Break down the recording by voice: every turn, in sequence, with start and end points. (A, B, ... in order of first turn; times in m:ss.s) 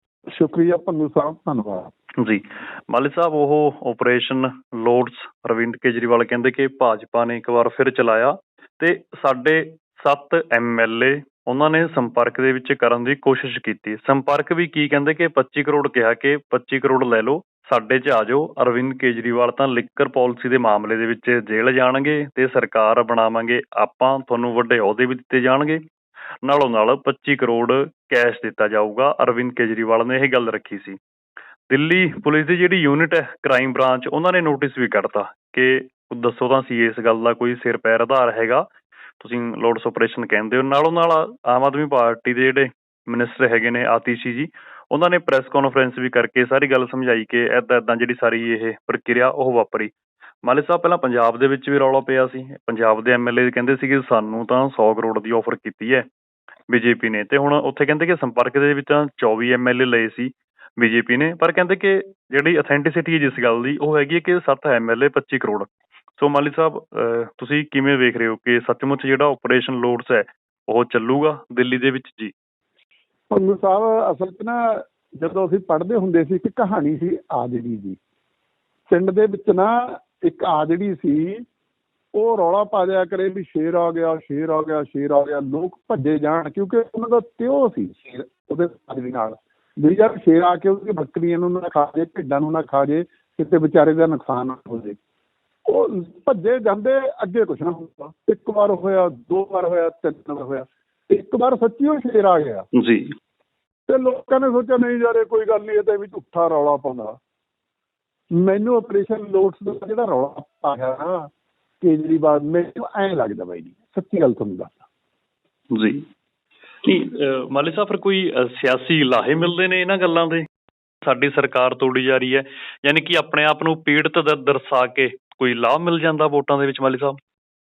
0:00.3-0:01.9 A
0:02.2-0:25.8 B
0:26.4-0:31.0 B
0:31.7-0:38.7 B
0:39.2-0:49.9 B
0:50.4-0:56.0 B
0:56.7-1:12.3 B
1:13.3-1:18.0 A
1:18.9-1:21.4 A
1:22.1-1:35.0 A
1:35.7-1:42.6 A
1:42.7-1:43.1 B
1:43.9-1:47.2 A
1:48.3-1:51.3 A
1:51.8-1:54.8 A
1:55.7-1:56.0 B
1:56.8-2:00.4 B
2:01.0-2:07.2 B